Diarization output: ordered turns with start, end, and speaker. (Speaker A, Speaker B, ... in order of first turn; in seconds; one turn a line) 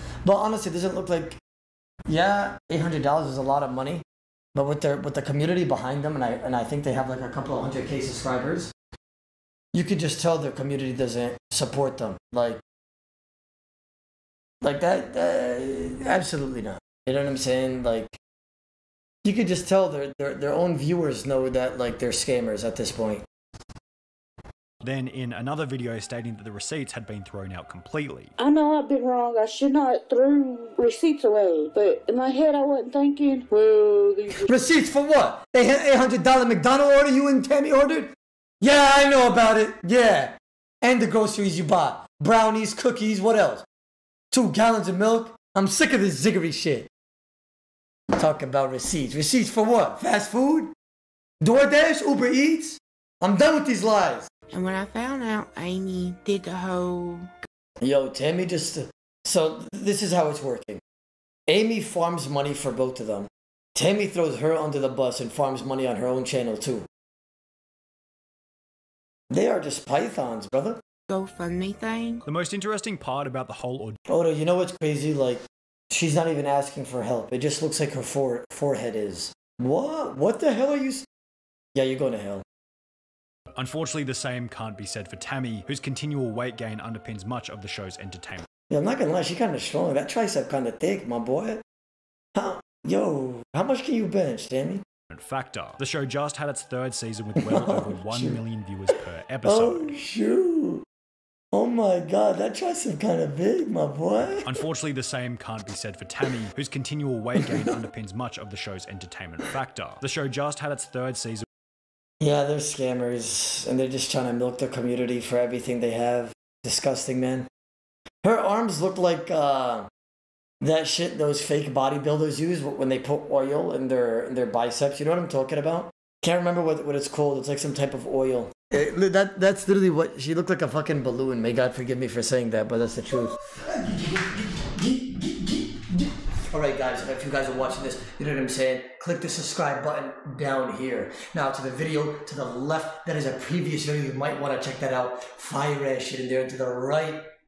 Speaker A: 0.2-1.4
Speaker A: 2.1-4.0
Speaker A: 4.5-8.7
Speaker A: 9.7-12.6
Speaker A: 14.6-18.2
Speaker A: 19.2-23.2
Speaker B: 24.8-28.3
Speaker C: 28.4-34.4
Speaker A: 34.3-43.6
Speaker A: 44.3-46.9
Speaker A: 48.1-50.7
Speaker A: 51.4-54.3
Speaker D: 54.5-57.3
Speaker A: 57.8-60.8
Speaker A: 61.5-66.8
Speaker A: 69.3-70.8
Speaker D: 71.1-72.2
Speaker B: 72.2-74.0
Speaker A: 74.1-81.0
Speaker A: 81.7-82.4
Speaker B: 83.5-88.5
Speaker A: 88.7-91.6
Speaker A: 92.3-94.8
Speaker B: 95.1-100.0
Speaker A: 97.4-98.4
Speaker A: 99.4-100.8
Speaker A: 101.5-104.5
Speaker B: 104.4-111.5
Speaker A: 107.4-107.8
Speaker A: 112.2-117.5
Speaker A: 118.2-119.9
Speaker A: 120.6-147.2